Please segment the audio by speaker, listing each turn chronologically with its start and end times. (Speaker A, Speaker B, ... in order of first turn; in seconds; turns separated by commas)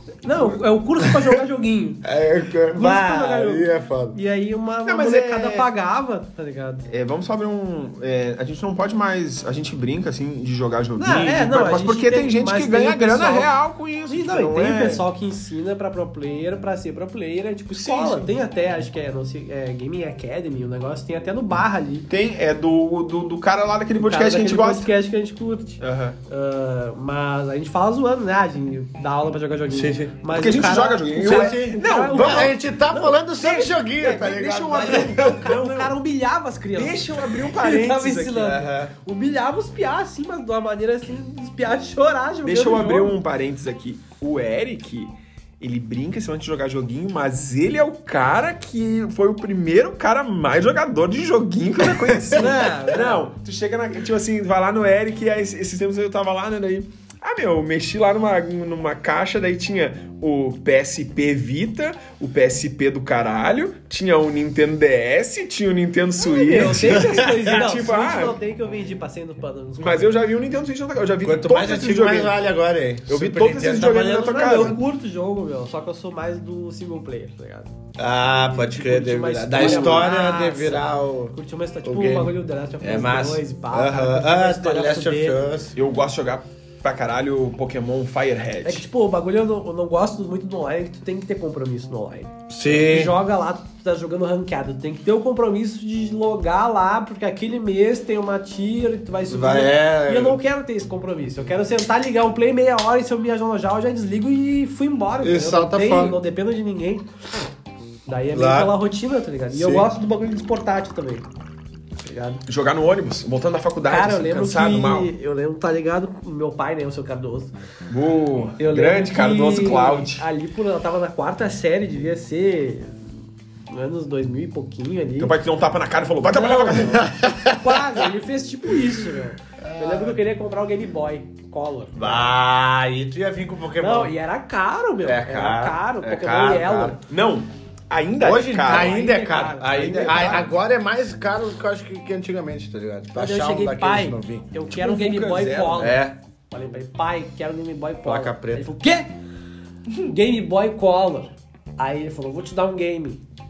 Speaker A: 0.2-2.0, Speaker B: 2.0-4.2, Speaker A: 2.7-6.9, Speaker C: 4.8-5.7, Speaker C: 6.9-15.0, Speaker A: 11.0-13.5, Speaker A: 14.1-22.1, Speaker C: 17.7-18.3, Speaker C: 22.1-24.9, Speaker A: 24.0-33.2, Speaker C: 25.8-26.2, Speaker B: 29.7-35.5, Speaker C: 30.3-32.5, Speaker C: 33.4-35.9, Speaker A: 34.7-43.2, Speaker C: 36.7-38.5, Speaker B: 38.4-38.9, Speaker C: 42.4-68.4, Speaker B: 52.1-52.4, Speaker A: 52.3-53.3, Speaker A: 66.2-70.2, Speaker B: 66.7-67.3, Speaker C: 69.8-72.3, Speaker B: 71.2-74.8, Speaker C: 73.1-74.8, Speaker A: 73.8-77.7, Speaker B: 78.0-85.8, Speaker A: 78.4-85.4, Speaker C: 79.6-80.1, Speaker C: 85.7-88.9, Speaker A: 88.6-107.1, Speaker B: 92.5-93.2, Speaker B: 99.3-100.4, Speaker B: 105.2-106.2, Speaker A: 108.1-111.2, Speaker B: 108.3-108.8, Speaker B: 109.5-109.9, Speaker A: 112.0-112.4, Speaker C: 112.5-115.1, Speaker A: 113.9-117.5, Speaker C: 117.9-120.2, Speaker A: 118.6-123.0, Speaker A: 123.7-125.3, Speaker C: 125.2-127.0, Speaker A: 126.2-132.3, Speaker B: 126.9-128.1, Speaker B: 129.6-130.2, Speaker B: 131.9-134.1, Speaker A: 133.8-137.0, Speaker B: 135.0-137.0, Speaker C: 137.1-138.9, Speaker B: 138.2-144.5, Speaker A: 138.6-140.5, Speaker C: 139.8-140.4, Speaker A: 143.1-149.1, Speaker C: 144.7-146.0, Speaker B: 145.8-146.2, Speaker B: 148.0-148.7, Speaker A: 150.0-153.2